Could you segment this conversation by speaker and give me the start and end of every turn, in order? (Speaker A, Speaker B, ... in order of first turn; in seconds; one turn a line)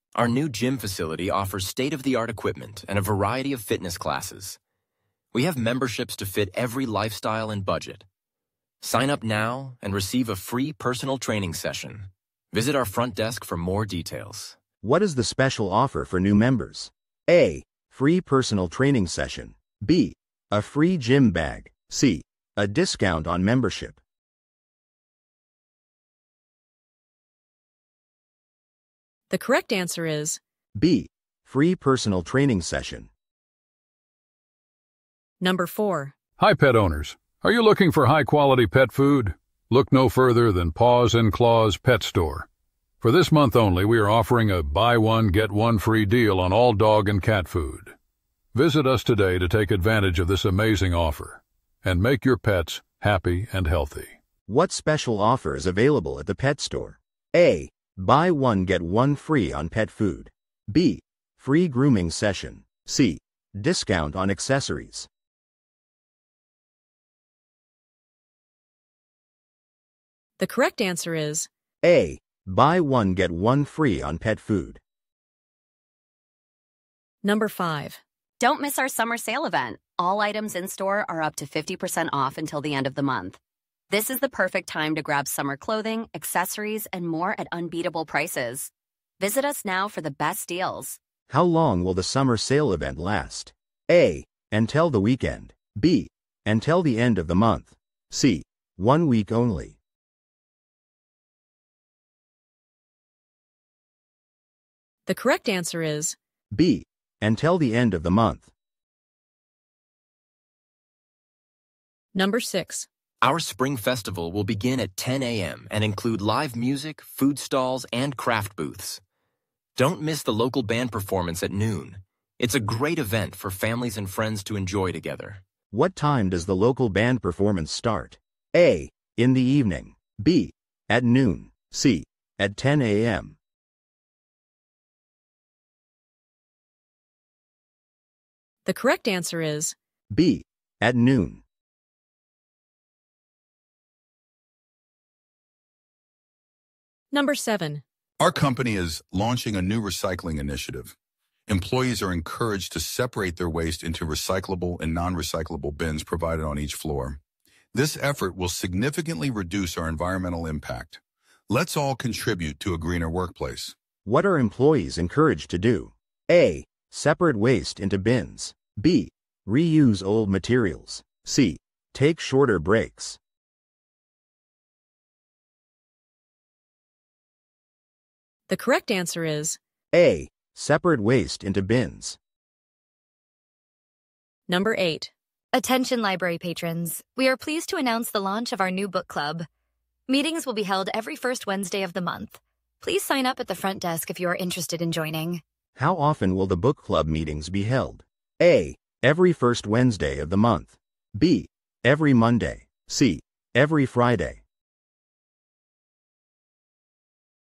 Speaker A: 0.1-4.6
Speaker A: 5.3-8.1
Speaker A: 8.8-14.6
Speaker B: 14.8-24.0
Speaker C: 29.3-30.4
Speaker B: 30.8-33.1
Speaker C: 35.4-36.1
Speaker D: 36.4-42.5
Speaker D: 43.0-48.0
Speaker D: 48.5-54.2
Speaker B: 54.5-65.1
Speaker C: 70.4-71.5
Speaker B: 71.8-74.8
Speaker C: 77.2-78.0
Speaker E: 78.4-83.4
Speaker E: 83.9-91.0
Speaker B: 91.3-99.8
Speaker C: 105.1-106.2
Speaker B: 106.5-108.5
Speaker C: 112.2-112.9
Speaker A: 113.2-119.0
Speaker A: 119.8-125.4
Speaker B: 125.7-133.4
Speaker C: 138.7-139.8
Speaker B: 140.1-141.4
Speaker C: 147.1-147.8
Speaker F: 148.2-150.9
Speaker F: 151.5-157.2
Speaker F: 157.7-163.8
Speaker B: 164.1-173.2
Speaker C: 178.5-179.6
Speaker B: 179.9-182.2
Speaker C: 184.5-185.1
Speaker G: 185.5-189.5
Speaker G: 190.1-195.4
Speaker B: 195.8-204.4